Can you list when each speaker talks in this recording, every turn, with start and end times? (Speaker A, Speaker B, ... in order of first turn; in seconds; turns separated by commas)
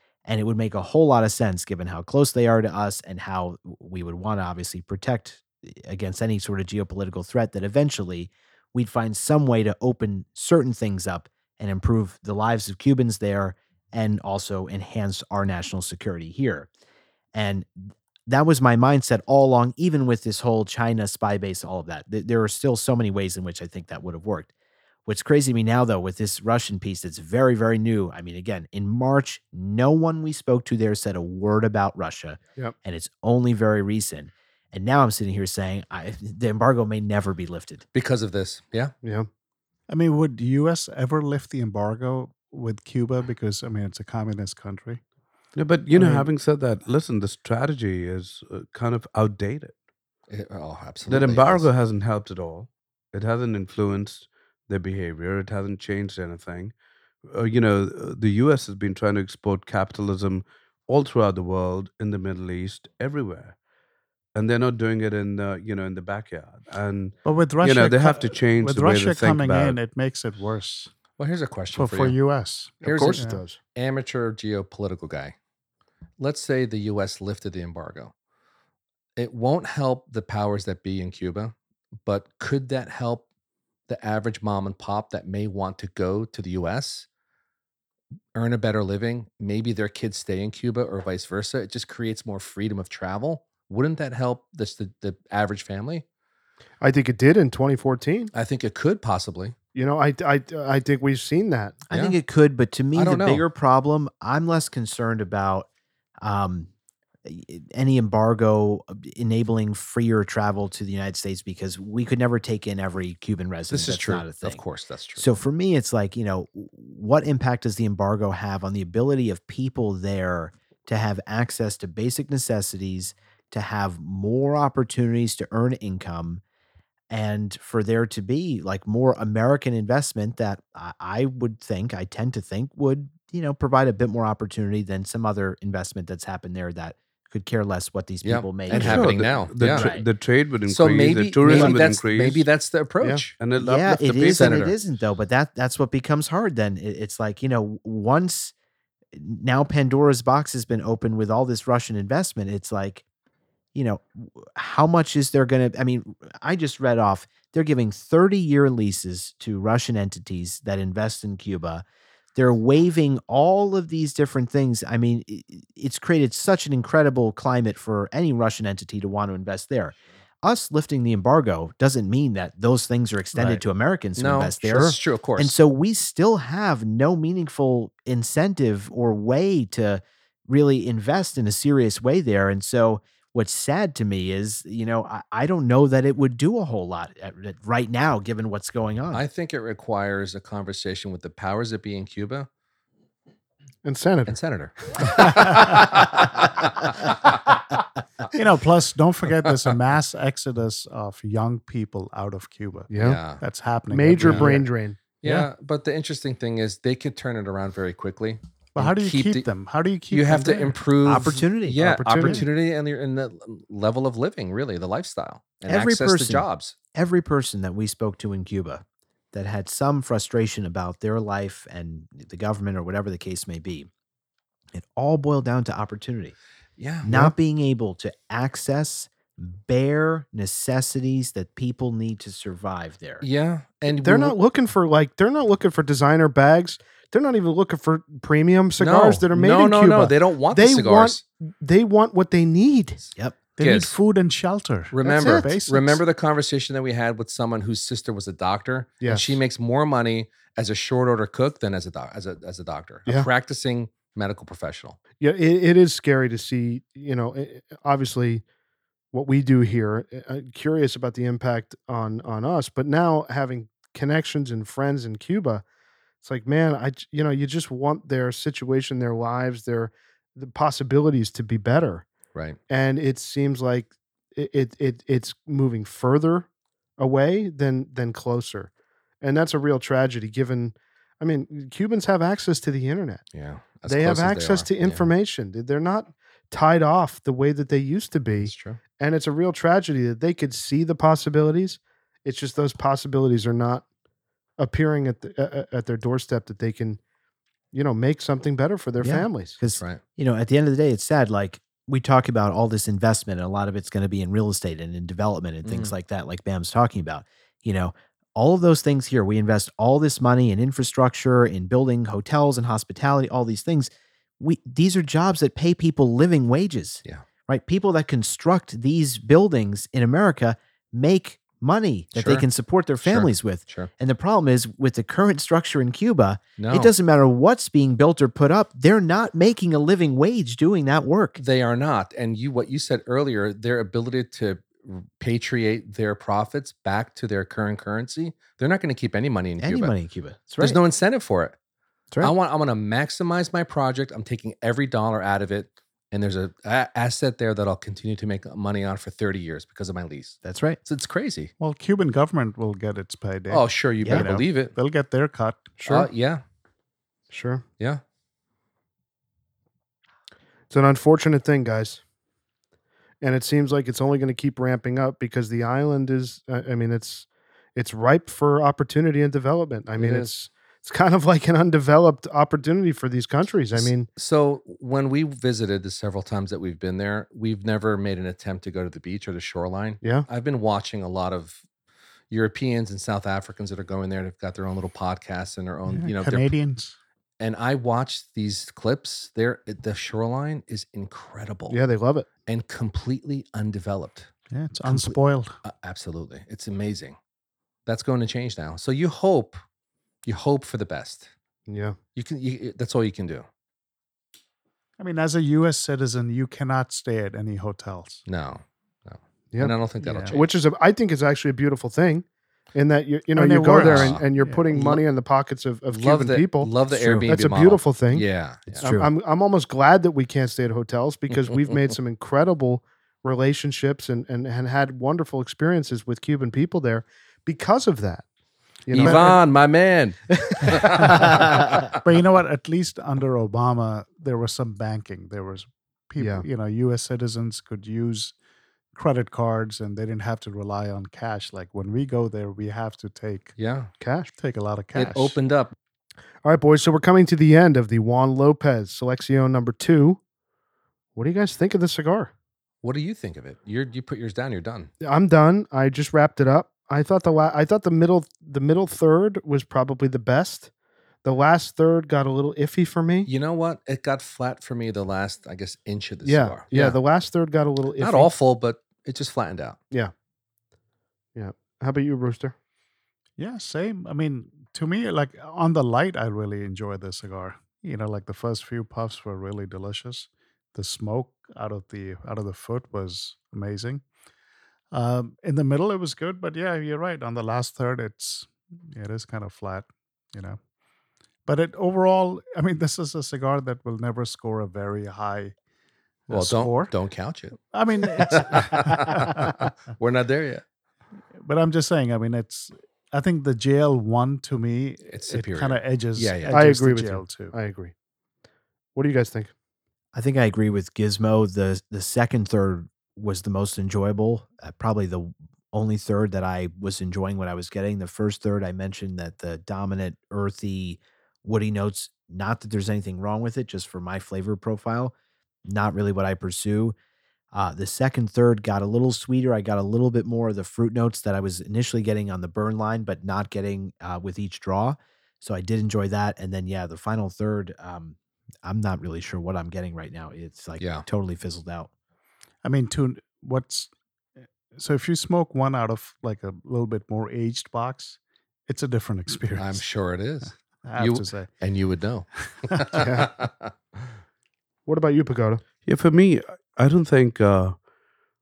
Speaker A: 0.2-16.7, Speaker A: 17.3-17.7, Speaker A: 18.3-24.5, Speaker A: 25.1-37.8, Speaker B: 37.9-38.9, Speaker C: 39.0-39.3, Speaker D: 39.9-45.0, Speaker E: 45.5-49.7, Speaker D: 46.0-46.2, Speaker B: 50.3-51.7, Speaker E: 51.1-56.7, Speaker E: 57.2-63.5, Speaker E: 64.3-69.8, Speaker D: 67.2-70.9, Speaker B: 71.2-72.2, Speaker D: 71.7-73.4, Speaker C: 72.8-73.6, Speaker B: 72.8-75.3, Speaker B: 76.2-78.1, Speaker B: 79.2-83.2, Speaker B: 83.9-87.1, Speaker B: 88.3-96.0, Speaker C: 96.8-98.3, Speaker B: 98.3-99.5, Speaker C: 99.7-101.8, Speaker A: 101.9-105.7, Speaker B: 101.9-102.2, Speaker B: 102.9-103.4, Speaker A: 106.2-106.7, Speaker A: 107.2-114.6, Speaker B: 113.7-115.3, Speaker A: 115.2-126.4, Speaker A: 127.1-140.1, Speaker B: 138.2-139.9, Speaker E: 138.7-142.5, Speaker B: 140.7-143.4, Speaker A: 141.5-141.9, Speaker E: 143.4-144.5, Speaker A: 143.6-148.5, Speaker B: 144.3-144.8, Speaker A: 149.1-153.0, Speaker A: 153.7-161.8, Speaker A: 162.3-189.2, Speaker B: 173.3-173.6, Speaker B: 174.2-175.5, Speaker B: 189.1-192.5, Speaker C: 193.8-194.3, Speaker B: 194.3-197.6, Speaker C: 195.0-195.8, Speaker D: 195.2-195.8, Speaker D: 198.3-204.7, Speaker B: 199.3-199.8, Speaker C: 202.9-203.2, Speaker B: 202.9-203.4, Speaker C: 203.9-205.0, Speaker B: 204.2-204.6, Speaker B: 205.2-209.5, Speaker D: 205.2-205.5, Speaker D: 208.7-210.8, Speaker B: 210.1-216.8, Speaker A: 211.0-212.4, Speaker C: 211.8-212.4, Speaker A: 215.7-223.9, Speaker A: 224.7-226.3, Speaker B: 226.8-227.3, Speaker A: 227.0-233.2, Speaker B: 233.2-234.3, Speaker C: 233.9-243.0, Speaker B: 238.8-241.2, Speaker D: 243.6-246.0, Speaker B: 243.6-243.9, Speaker B: 244.9-255.0, Speaker C: 245.0-245.5, Speaker C: 249.0-249.4, Speaker C: 255.2-258.4, Speaker C: 259.1-265.6, Speaker C: 266.2-272.1, Speaker C: 272.7-276.5, Speaker C: 277.0-283.2, Speaker B: 283.3-285.1, Speaker C: 283.9-293.8, Speaker B: 288.4-288.8, Speaker C: 294.6-297.0, Speaker C: 297.7-299.6, Speaker A: 299.0-331.4, Speaker B: 299.7-300.0, Speaker B: 305.6-305.9, Speaker B: 322.1-322.5, Speaker B: 323.0-323.9, Speaker B: 326.6-326.9, Speaker B: 331.4-339.9, Speaker A: 339.6-340.8, Speaker B: 340.6-341.5, Speaker B: 342.2-351.5, Speaker A: 350.4-350.8, Speaker D: 351.6-355.8, Speaker B: 353.5-354.7, Speaker A: 354.0-354.3, Speaker C: 355.8-356.1, Speaker B: 355.9-356.4, Speaker C: 357.3-357.6, Speaker C: 360.7-362.0, Speaker C: 363.2-374.1, Speaker B: 370.0-370.3, Speaker B: 373.7-381.6, Speaker B: 382.3-386.5, Speaker D: 385.9-386.9, Speaker B: 387.4-391.8, Speaker C: 391.7-392.3, Speaker B: 392.5-394.3, Speaker D: 394.5-395.6, Speaker B: 394.8-397.1, Speaker B: 397.9-399.6, Speaker B: 400.2-401.3, Speaker C: 401.7-402.0, Speaker B: 402.1-403.4, Speaker D: 405.0-408.2, Speaker B: 408.3-410.5, Speaker D: 410.0-410.4, Speaker C: 410.3-418.2, Speaker D: 413.3-415.0, Speaker B: 413.8-414.3, Speaker B: 415.9-418.9, Speaker A: 418.8-419.1, Speaker C: 418.8-428.2, Speaker C: 428.9-429.4, Speaker B: 428.9-431.9, Speaker D: 429.0-429.4, Speaker C: 430.4-431.1, Speaker D: 430.9-431.4, Speaker D: 432.0-438.3, Speaker C: 436.2-436.4, Speaker D: 438.9-443.5, Speaker B: 443.6-443.9, Speaker C: 444.0-444.3, Speaker D: 444.3-445.4, Speaker B: 444.9-445.7, Speaker C: 446.4-450.2, Speaker C: 451.1-452.3, Speaker B: 452.8-454.9, Speaker C: 455.0-460.7, Speaker C: 461.2-463.3, Speaker B: 463.2-467.0, Speaker C: 466.2-468.3, Speaker B: 468.0-469.8, Speaker C: 471.3-472.5, Speaker D: 473.4-484.0, Speaker D: 484.9-490.6, Speaker D: 491.4-495.5, Speaker D: 496.3-496.9, Speaker B: 496.3-500.6, Speaker D: 497.7-499.7, Speaker D: 501.4-507.5, Speaker B: 505.1-506.6, Speaker C: 506.5-507.9, Speaker C: 508.9-509.5, Speaker A: 510.1-525.1, Speaker A: 525.6-526.9, Speaker A: 527.5-541.9, Speaker B: 540.8-541.0, Speaker D: 542.6-543.9, Speaker D: 544.7-549.8, Speaker B: 549.5-553.7, Speaker D: 550.8-551.5, Speaker D: 552.7-553.0, Speaker C: 553.0-553.3, Speaker C: 554.9-555.6, Speaker E: 555.8-557.8